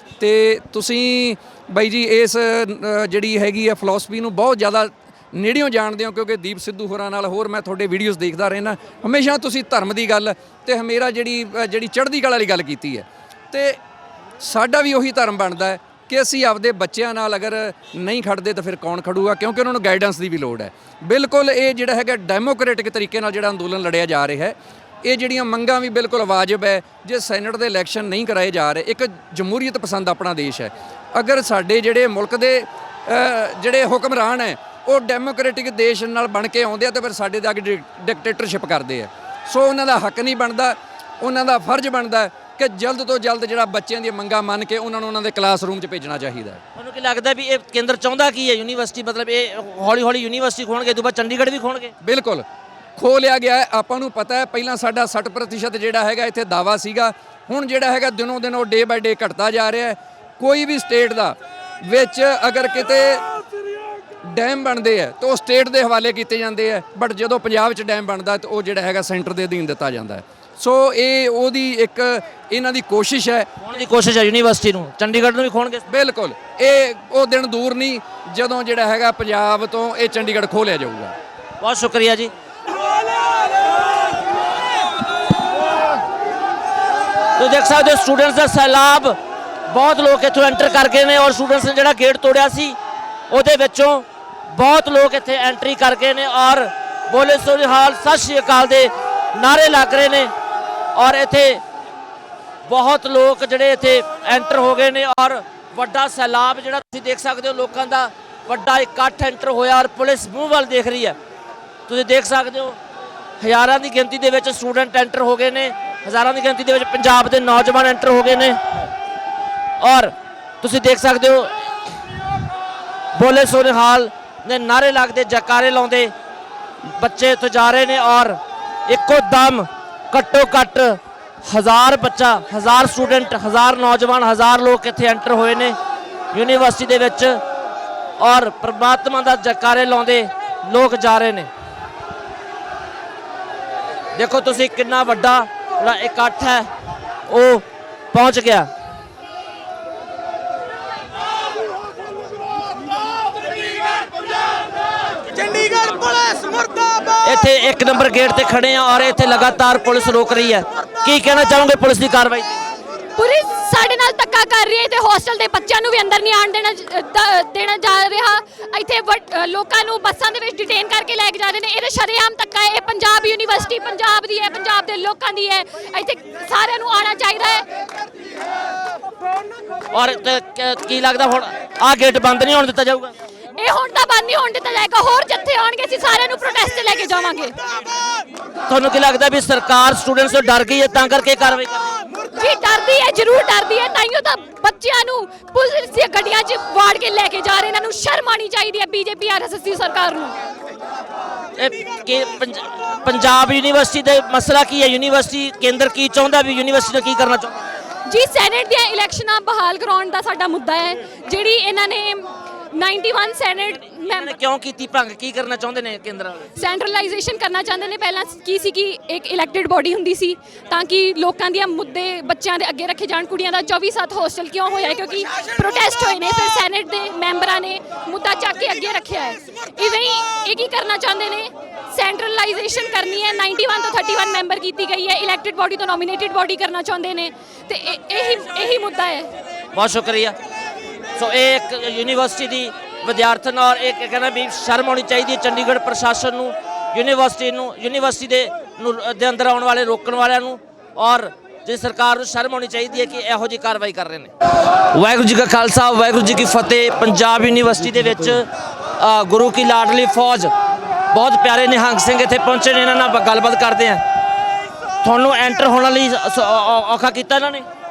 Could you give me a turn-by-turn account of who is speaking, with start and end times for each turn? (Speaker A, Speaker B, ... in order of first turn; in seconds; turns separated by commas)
Speaker A: 0.2-13.8, Speaker A: 14.4-46.6, Speaker B: 46.8-51.9, Speaker A: 52.0-52.4, Speaker A: 53.0-63.2, Speaker A: 64.3-73.5, Speaker B: 73.6-75.8, Speaker A: 75.9-81.2, Speaker B: 81.6-82.3, Speaker B: 87.3-89.2, Speaker B: 89.7-92.8, Speaker B: 93.3-100.3, Speaker B: 100.9-101.6, Speaker B: 102.7-111.2, Speaker B: 111.9-112.8, Speaker B: 113.4-118.6, Speaker B: 119.8-121.6, Speaker B: 123.2-126.1, Speaker B: 126.8-135.8, Speaker B: 136.3-137.4, Speaker B: 138.2-141.5, Speaker B: 144.2-146.7, Speaker B: 147.3-148.7, Speaker B: 155.7-156.3, Speaker B: 157.2-162.6, Speaker C: 163.2-177.7, Speaker B: 179.9-183.1, Speaker C: 183.6-187.6, Speaker B: 188.7-191.9, Speaker C: 192.3-200.3, Speaker B: 201.6-207.6, Speaker C: 208.1-214.3, Speaker B: 214.0-216.5, Speaker C: 216.6-239.3, Speaker B: 239.7-240.3, Speaker B: 241.2-254.3, Speaker B: 254.9-260.5, Speaker B: 261.1-264.0, Speaker B: 265.0-267.6